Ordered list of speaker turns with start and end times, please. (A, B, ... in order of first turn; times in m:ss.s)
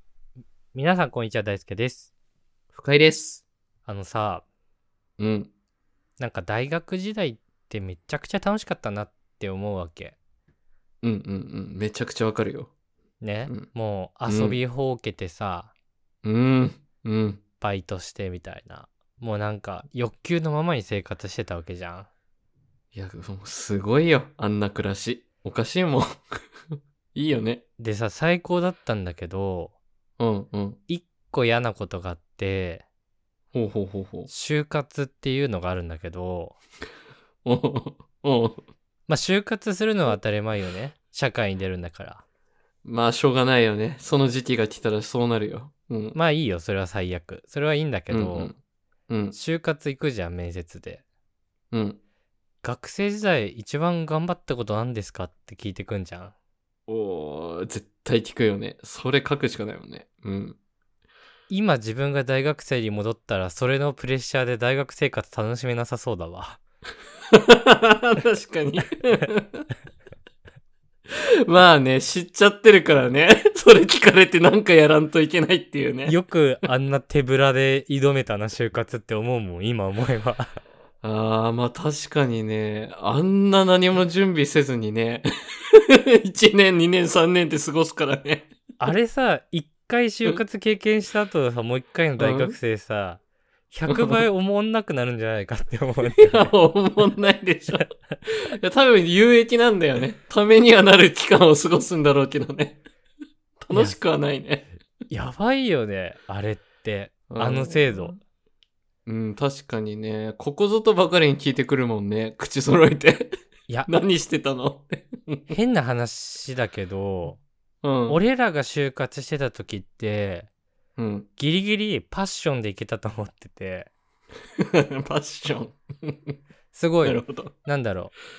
0:00.7-0:02.1 A
0:02.7-0:03.4 B
0:03.8-0:04.4 A
0:05.2-0:05.5 B
0:06.2-0:10.2 A
0:11.0-0:12.7 B
0:13.2-0:15.7 A
0:14.3-0:14.6 B
0:16.2-0:17.4 B
0:17.6-0:22.1 A
0:22.9-0:27.6 B
0:27.8-0:29.7 A
0:30.2-0:30.8 B
0:30.9-0:32.8 A
0:33.5-0:34.3 B
0:34.3-0:36.6 A
0:37.4-0:38.6 B
0:39.1-0:42.2 A
0:42.8-0:46.2 B
0:46.1-0:48.5 A
0:48.1-0:48.6 B
0:49.1-0:49.4 B
0:49.3-0:51.0 A
0:51.7-0:52.0 B
0:52.6-0:56.3 A
0:56.9-1:00.6 B
1:01.5-1:06.6 A
1:07.3-1:09.6 B
1:11.1-1:16.1 B
1:16.0-1:20.6 A
1:21.0-1:28.5 B
1:28.8-1:36.5 A
1:32.2-1:32.6 B
1:33.9-1:34.2 B
1:36.2-1:42.8 B
1:43.6-1:44.7 B
1:43.7-1:44.0 A
1:45.1-1:48.2 A
1:47.3-1:48.2 B
1:49.0-1:53.4 B
1:53.9-1:55.5 B
1:55.5-1:57.4 A
1:57.8-1:58.2 B
1:58.1-2:00.5 A
2:01.0-2:01.3 B
2:01.4-2:03.9 A
2:04.6-2:06.4 B
2:06.7-2:08.1 A
2:07.0-2:07.5 B